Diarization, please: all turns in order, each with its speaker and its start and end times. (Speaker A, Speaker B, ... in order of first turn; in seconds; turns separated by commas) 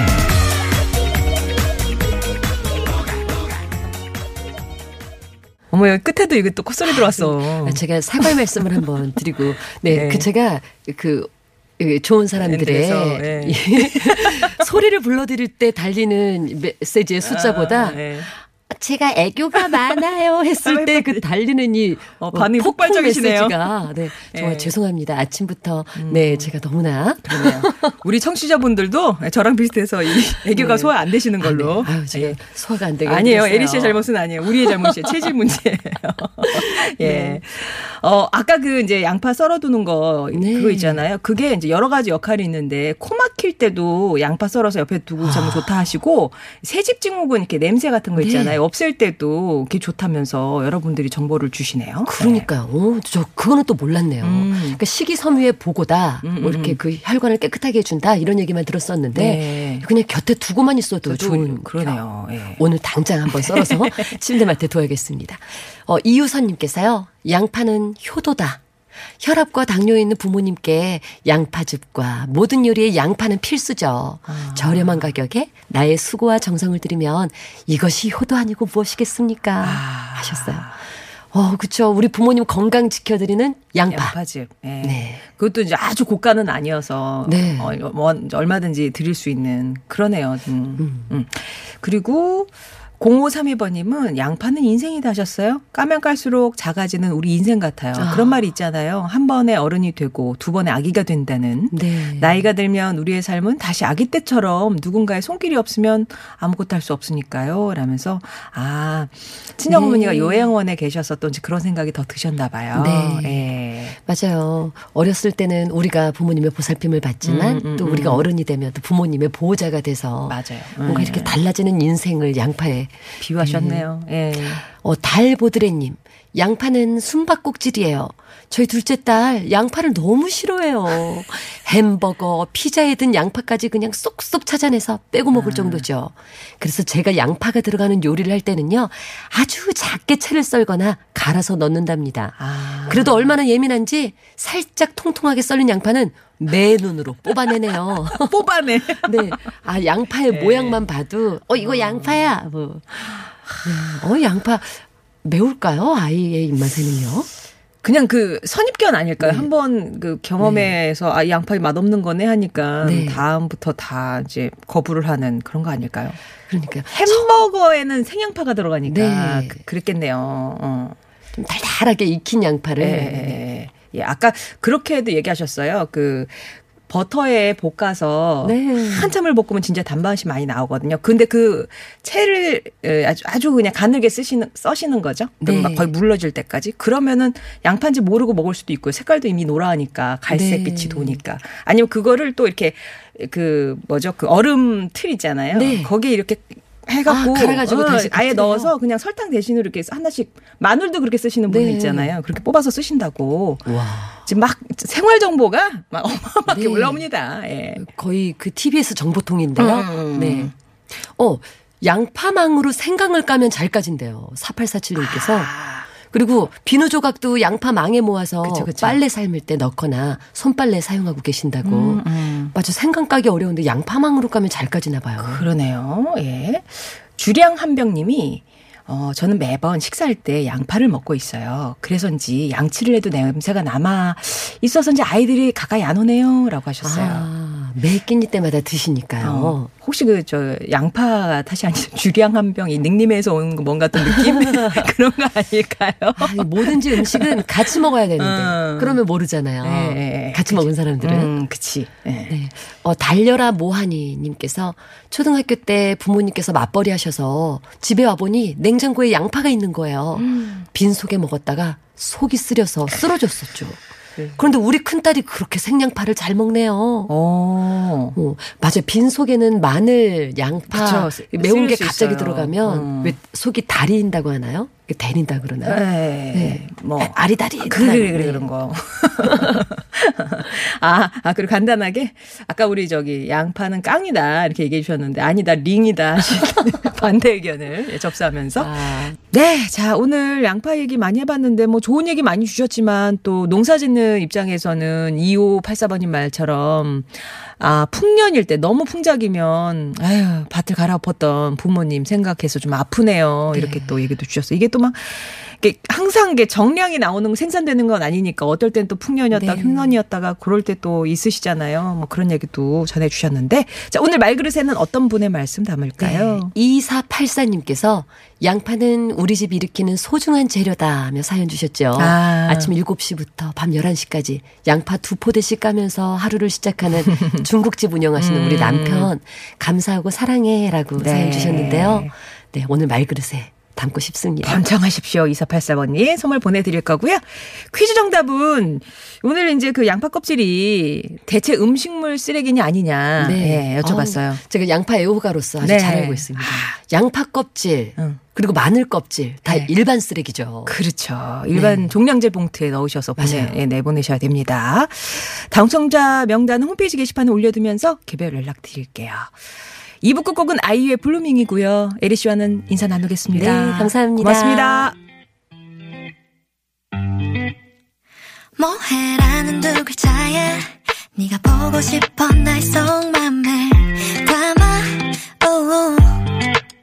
Speaker A: 5.7-7.8, Speaker B: 6.9-27.9, Speaker A: 9.9-10.3, Speaker A: 12.4-14.7, Speaker A: 17.2-18.3, Speaker A: 19.5-20.0, Speaker A: 20.6-21.2, Speaker A: 22.2-24.7, Speaker A: 26.0-26.5, Speaker A: 27.2-32.4, Speaker B: 30.5-35.2, Speaker A: 33.0-52.5, Speaker B: 36.4-37.4, Speaker B: 40.3-41.0, Speaker B: 45.2-45.7, Speaker B: 48.2-48.6, Speaker B: 52.1-62.0, Speaker A: 54.2-54.8, Speaker A: 56.2-56.8, Speaker A: 59.1-59.9, Speaker A: 61.0-62.6, Speaker B: 62.6-68.6, Speaker A: 63.3-64.1, Speaker B: 69.2-80.7, Speaker A: 74.3-75.1, Speaker A: 79.6-80.8, Speaker B: 81.3-84.2, Speaker A: 83.9-114.0, Speaker B: 84.8-85.2, Speaker B: 87.3-87.7, Speaker B: 90.8-91.1, Speaker B: 98.0-98.4, Speaker B: 101.7-102.4, Speaker B: 109.7-110.5, Speaker B: 112.7-113.5, Speaker B: 114.0-123.9, Speaker A: 117.2-118.3, Speaker A: 120.3-121.4, Speaker A: 123.2-124.6, Speaker B: 124.7-148.4, Speaker A: 135.3-135.8, Speaker A: 142.4-143.3, Speaker A: 148.1-149.4, Speaker B: 149.0-157.3, Speaker A: 150.3-150.8, Speaker A: 151.6-152.3, Speaker A: 157.8-166.2, Speaker B: 159.2-159.5, Speaker B: 160.4-160.7, Speaker B: 162.8-163.2, Speaker B: 166.5-167.3, Speaker A: 166.9-171.0, Speaker B: 168.9-169.6, Speaker B: 171.3-173.4, Speaker A: 172.8-203.7, Speaker B: 178.4-179.1, Speaker B: 185.4-185.9, Speaker B: 190.3-191.2, Speaker B: 195.5-195.9, Speaker B: 197.1-198.7, Speaker B: 201.5-202.2, Speaker B: 203.7-204.2, Speaker A: 204.2-207.8, Speaker B: 206.5-207.0, Speaker B: 207.8-210.5, Speaker A: 209.6-210.5, Speaker B: 211.1-225.4, Speaker A: 215.0-215.9, Speaker A: 218.4-219.0, Speaker A: 221.6-222.5, Speaker A: 225.2-237.3, Speaker B: 236.8-239.7, Speaker A: 239.2-249.0, Speaker B: 244.1-244.9, Speaker B: 246.2-251.3, Speaker A: 249.6-252.3, Speaker B: 252.3-263.8, Speaker A: 260.2-260.7, Speaker B: 264.4-267.1, Speaker A: 267.1-268.2, Speaker B: 268.1-275.8, Speaker A: 270.7-273.2, Speaker A: 275.6-316.5, Speaker B: 276.3-278.5, Speaker B: 279.2-279.6, Speaker B: 288.6-289.2, Speaker B: 303.5-304.0, Speaker B: 309.3-310.0, Speaker B: 316.0-334.6, Speaker A: 322.0-322.7, Speaker A: 328.2-329.1, Speaker A: 331.0-332.1, Speaker A: 334.4-344.4, Speaker B: 343.2-350.8, Speaker A: 345.6-346.8, Speaker A: 350.7-359.4, Speaker B: 351.5-351.9, Speaker B: 353.2-353.6, Speaker A: 360.0-365.0, Speaker B: 363.3-364.9, Speaker C: 368.6-376.4